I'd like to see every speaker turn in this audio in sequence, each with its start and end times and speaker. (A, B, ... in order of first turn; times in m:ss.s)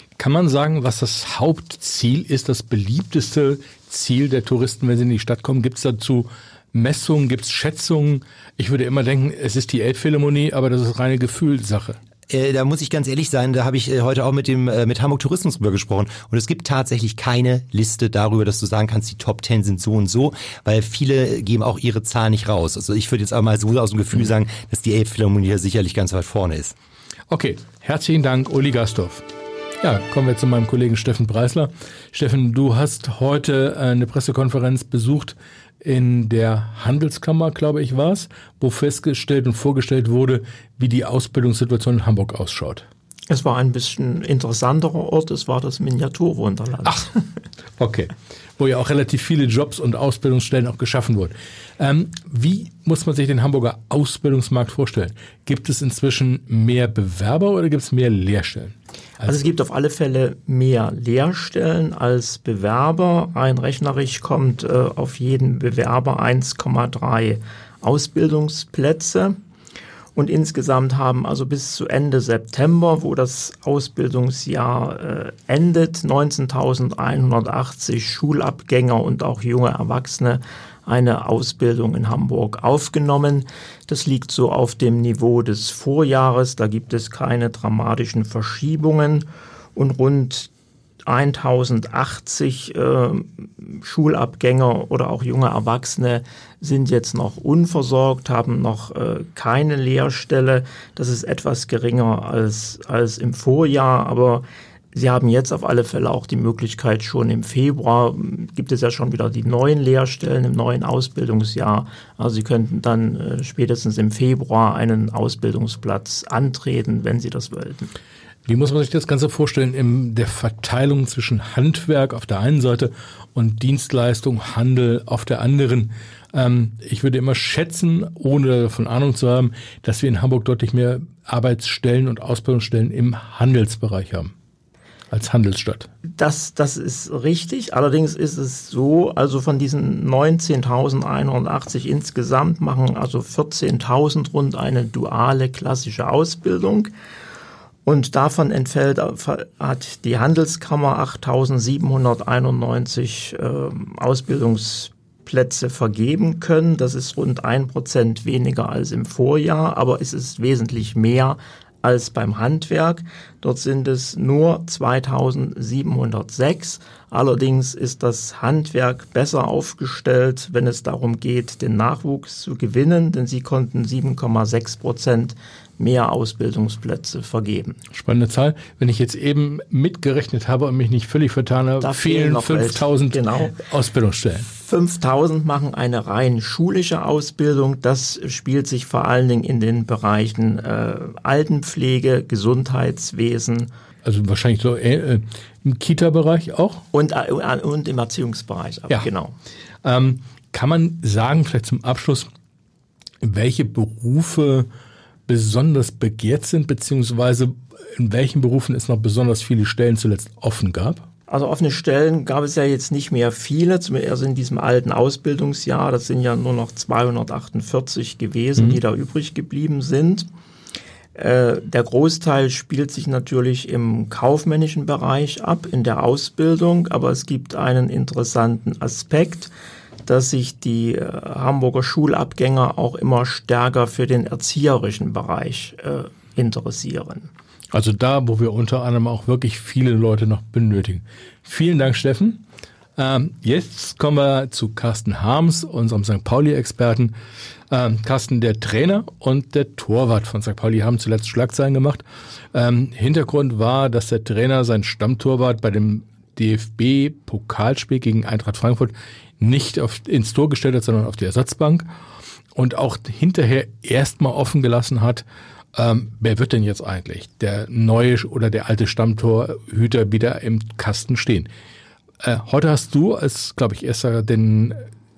0:00.2-0:12.0 A
0:12.3-0:26.7 B
0:27.3-0:29.2 A
0:29.8-0:42.9 A
0:43.3-0:47.1 C
0:47.8-0:59.4 A
0:59.2-1:09.3 C
1:10.2-1:30.5 C
1:31.1-1:57.9 C
1:58.5-2:14.3 A
2:15.1-2:15.9 A
2:16.2-2:26.9 C
2:27.8-2:57.8 C
2:57.9-3:04.5 A
3:01.8-3:03.6 C
3:04.6-3:13.7 C
3:14.0-3:16.8 A
3:16.9-3:19.3 C
3:19.8-3:22.3 A
3:23.2-3:24.7 A
3:25.3-3:31.0 A
3:31.3-3:40.3 C
3:41.2-3:49.5 C
3:50.1-3:57.3 C
3:57.7-4:02.4 A
4:03.0-4:07.1 A
4:07.7-4:21.9 A
4:22.6-4:25.2 A
4:25.8-4:31.5 A
4:32.2-4:34.8 A